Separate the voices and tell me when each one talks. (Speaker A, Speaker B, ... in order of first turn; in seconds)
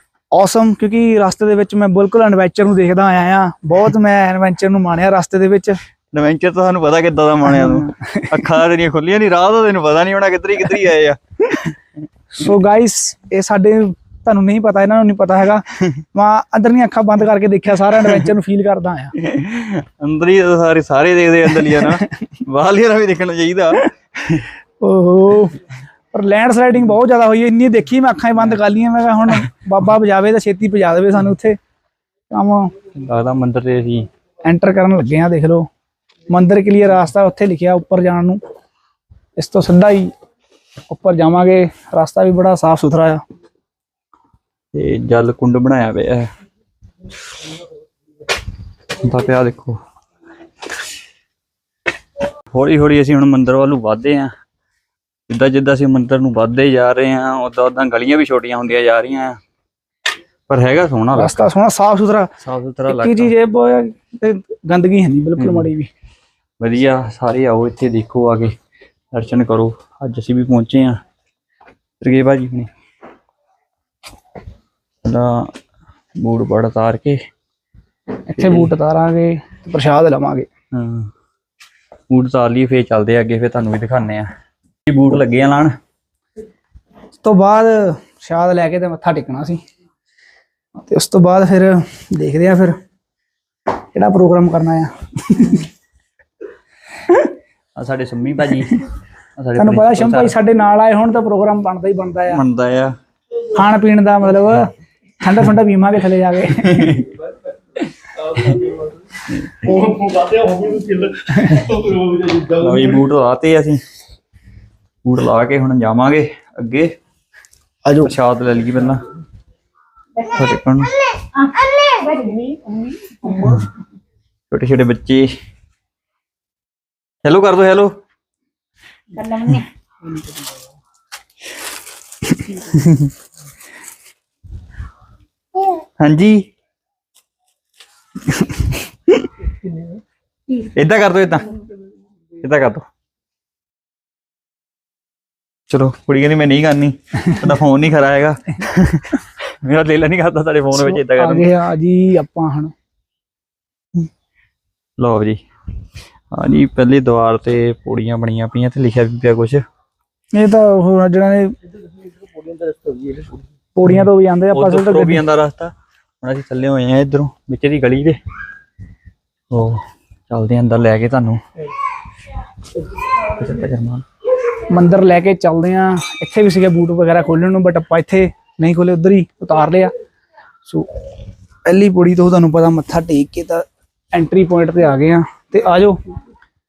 Speaker A: 0.3-5.8, 7.5-8.5, 12.3-19.1, 21.6-22.1, 24.8-25.6, 26.1-31.6, 32.3-32.7, 34.4-35.7, 36.3-38.4, 39.4-40.1, 40.9-43.2, 61.1-62.3, 62.9-65.9, 78.3-80.5, 87.2-89.6, 90.8-92.8, 93.9-95.7, 97.0-97.3, 99.6-102.4, 103.5-107.0, 117.8-118.1, 150.8-152.7, 160.3-161.6, 163.8-165.2, 174.7-179.9, 180.7-180.9, 181.7-186.0
Speaker B: 6.1-11.7, 19.2-24.5, 33.0-34.1, 44.7-46.3, 49.0-49.8, 52.5-54.3, 55.3-59.4, 60.5-61.5, 62.4-63.3, 65.4-65.7, 66.6-68.6, 69.1-71.0, 72.0-72.7, 75.0-75.6, 76.2-77.3, 78.4-78.7, 80.7-81.1, 82.1-84.3, 84.9-85.8, 97.8-98.8, 99.4-100.4, 102.3-103.0, 106.6-107.0, 109.3-109.7, 112.6-113.8, 115.0-117.0, 118.0-119.0, 120.2-121.0, 124.5-125.3, 127.2-128.0, 129.3-129.7, 132.6-133.1, 136.0-136.5, 140.6-141.6, 142.4-142.9, 145.7-151.5, 155.0-155.4, 156.3-159.6, 163.8-168.2, 169.5-171.4, 173.2-174.0
Speaker C: 106.9-113.0, 139.5-140.0, 161.7-163.4